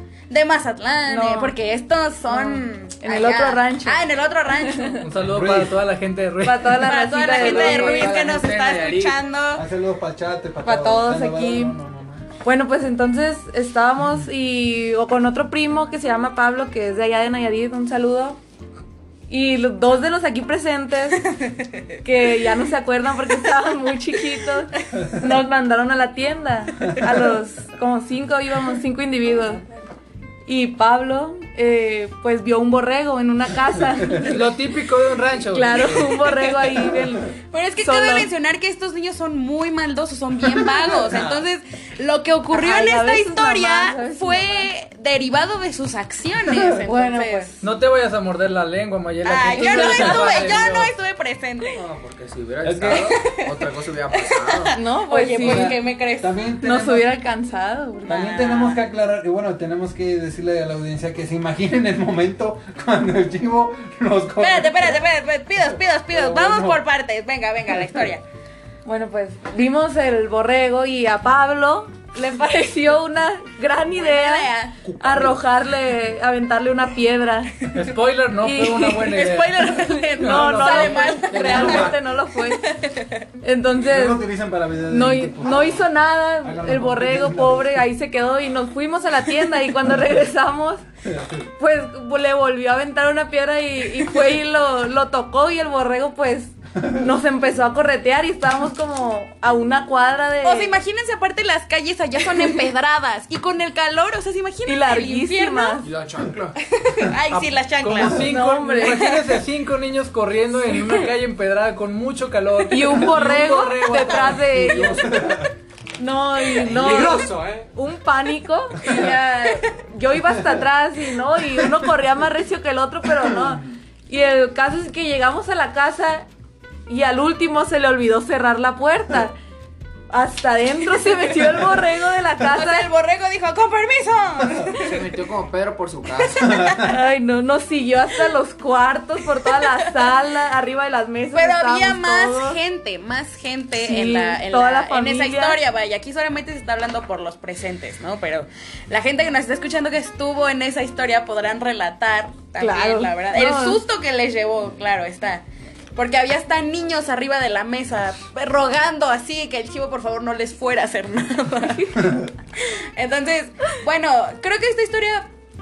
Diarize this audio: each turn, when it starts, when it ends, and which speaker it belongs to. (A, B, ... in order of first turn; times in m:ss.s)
0:00.3-0:05.0 A
0:01.1-0:01.5 B
0:02.3-0:05.0 B
0:05.0-0:06.9 C
0:05.2-0:05.8 D
0:06.4-0:08.2 B
0:06.8-0:09.6 A
0:07.3-0:09.2 E
0:09.5-0:12.2 D
0:10.6-0:11.7 B
0:12.4-0:18.4 B
0:19.3-0:21.3 B
0:21.4-0:21.8 A
0:22.0-0:29.6 B
0:30.4-0:34.5 B
0:34.2-0:36.0 C
0:35.5-0:38.3 B
0:35.5-0:36.7 A
0:37.5-0:47.7 A
0:40.8-0:41.4 D
0:42.5-0:44.7 B
0:46.8-0:47.5 B
0:47.6-0:50.9 C
0:49.2-0:51.8 A
0:49.6-0:50.5 D
0:51.6-0:54.7 E
0:52.6-0:53.2 D
0:52.9-0:56.3 A
0:54.7-0:55.7 B
0:55.4-0:57.1 D
0:56.6-0:58.2 B
0:58.0-1:05.0 D
0:58.1-0:58.8 A
1:04.4-1:08.2 A
1:06.1-1:06.8 D
1:08.8-1:17.7 B
1:13.9-1:14.8 A
1:14.8-1:15.4 D
1:17.6-1:21.2 C
1:18.4-1:19.2 B
1:18.8-1:22.0 A
1:20.2-1:22.7 B
1:21.3-1:22.0 E
1:22.6-1:23.2 A
1:23.4-1:24.2 B
1:23.7-1:25.8 D
1:24.9-1:30.8 B
1:26.4-1:27.8 D
1:31.6-1:40.8 B
1:40.4-1:45.9 A
1:44.6-1:45.9 B
1:45.8-1:46.6 E
1:46.6-1:49.2 A
1:47.3-1:54.5 C
1:48.0-1:48.3 D
1:48.3-1:49.2 B
1:52.7-1:55.2 B
1:54.0-1:54.4 A
1:54.4-1:55.2 E
1:54.6-1:55.5 D
1:56.0-2:06.3 B
1:56.6-1:57.7 D
1:56.6-1:57.2 E
2:06.9-2:09.3 B
2:10.1-2:12.9 B
2:12.5-2:15.0 A
2:14.8-2:16.6 E
2:16.2-2:16.9 A
2:16.4-2:16.9 D
2:16.8-2:22.6 B
2:21.3-2:35.4 A
2:23.8-2:25.6 B
2:32.6-2:33.8 B
2:35.9-2:45.2 A